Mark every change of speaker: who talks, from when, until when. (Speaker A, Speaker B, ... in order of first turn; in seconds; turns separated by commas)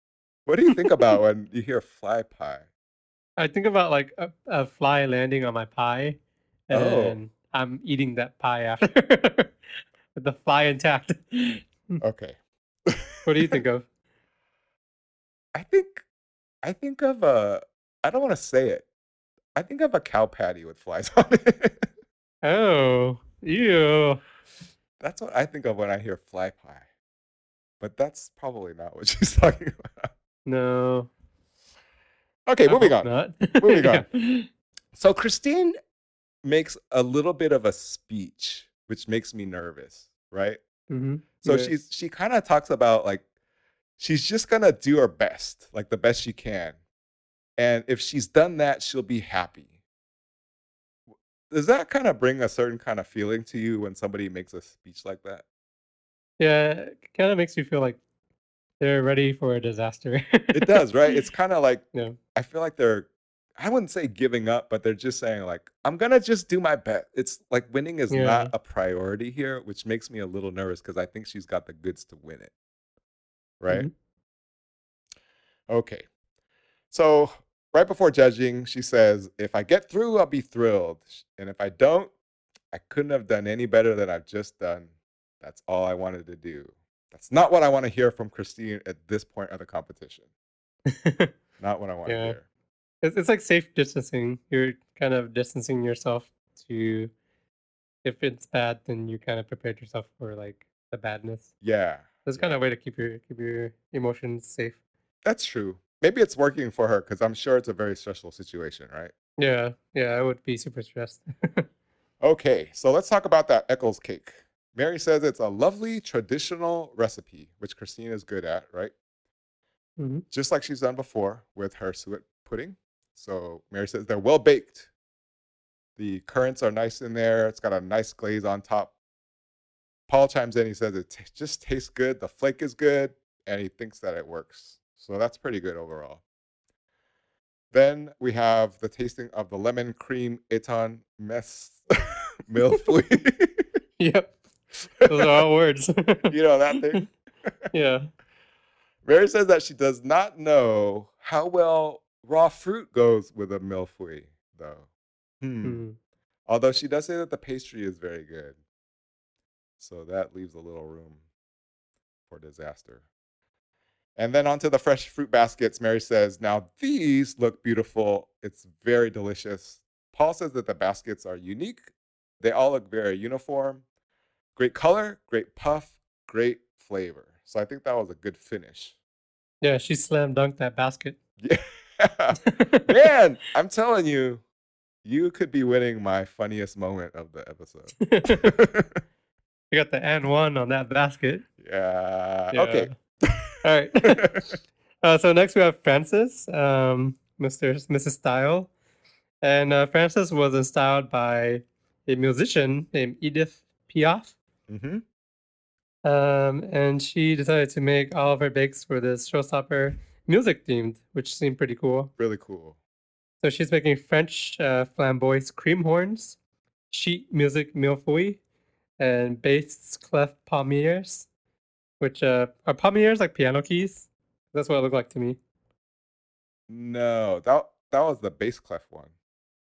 Speaker A: 0.5-2.7, Speaker B: 3.4-9.6, Speaker A: 6.7-7.2, Speaker B: 10.2-12.0, Speaker A: 12.0-13.6, Speaker B: 13.2-13.9, Speaker A: 15.5-16.0, Speaker A: 16.6-18.9, Speaker A: 19.6-21.9, Speaker B: 22.4-24.2, Speaker A: 25.0-26.9, Speaker A: 27.8-30.1, Speaker B: 30.4-31.1, Speaker A: 32.5-34.1, Speaker B: 32.7-34.5, Speaker A: 34.9-35.8, Speaker A: 36.4-40.6, Speaker B: 40.9-41.8, Speaker A: 41.4-43.2, Speaker A: 44.0-46.8, Speaker A: 47.6-49.7, Speaker A: 51.5-55.4, Speaker B: 56.4-58.0, Speaker B: 58.8-61.3, Speaker A: 60.5-72.5, Speaker B: 68.1-68.5, Speaker A: 73.6-73.9, Speaker A: 75.7-76.1, Speaker A: 76.9-82.1, Speaker A: 82.7-90.3, Speaker B: 90.9-91.3, Speaker A: 91.6-92.4, Speaker B: 92.1-92.4, Speaker B: 93.0-97.1, Speaker B: 98.0-101.5, Speaker A: 101.6-102.6, Speaker B: 102.2-104.8, Speaker A: 105.2-109.1, Speaker B: 109.4-111.7, Speaker A: 112.2-118.9, Speaker B: 120.0-120.2, Speaker A: 120.3-124.9, Speaker A: 126.0-128.9, Speaker A: 130.1-136.2, Speaker A: 137.7-141.9, Speaker A: 142.5-143.7, Speaker B: 144.0-144.3, Speaker A: 144.8-145.4, Speaker B: 145.1-147.0, Speaker A: 146.3-147.5, Speaker B: 147.7-148.1, Speaker A: 149.1-154.9, Speaker A: 155.4-155.8, Speaker B: 155.6-156.0, Speaker A: 156.5-158.6, Speaker A: 159.8-161.2, Speaker A: 162.3-163.1, Speaker A: 164.2-171.9, Speaker A: 172.4-173.8, Speaker A: 174.6-179.0, Speaker B: 179.6-181.2, Speaker A: 181.4-184.4, Speaker B: 182.4-182.9, Speaker A: 185.1-189.0, Speaker B: 188.0-188.5, Speaker B: 189.7-191.4, Speaker A: 191.6-194.5, Speaker B: 192.5-192.9, Speaker B: 193.6-194.4, Speaker B: 195.0-198.7, Speaker B: 199.4-204.3, Speaker A: 204.7-205.0, Speaker B: 206.0-212.1, Speaker A: 212.2-212.8, Speaker B: 213.4-216.4, Speaker B: 216.9-218.4, Speaker B: 219.0-221.3, Speaker B: 222.0-225.4, Speaker A: 226.7-229.1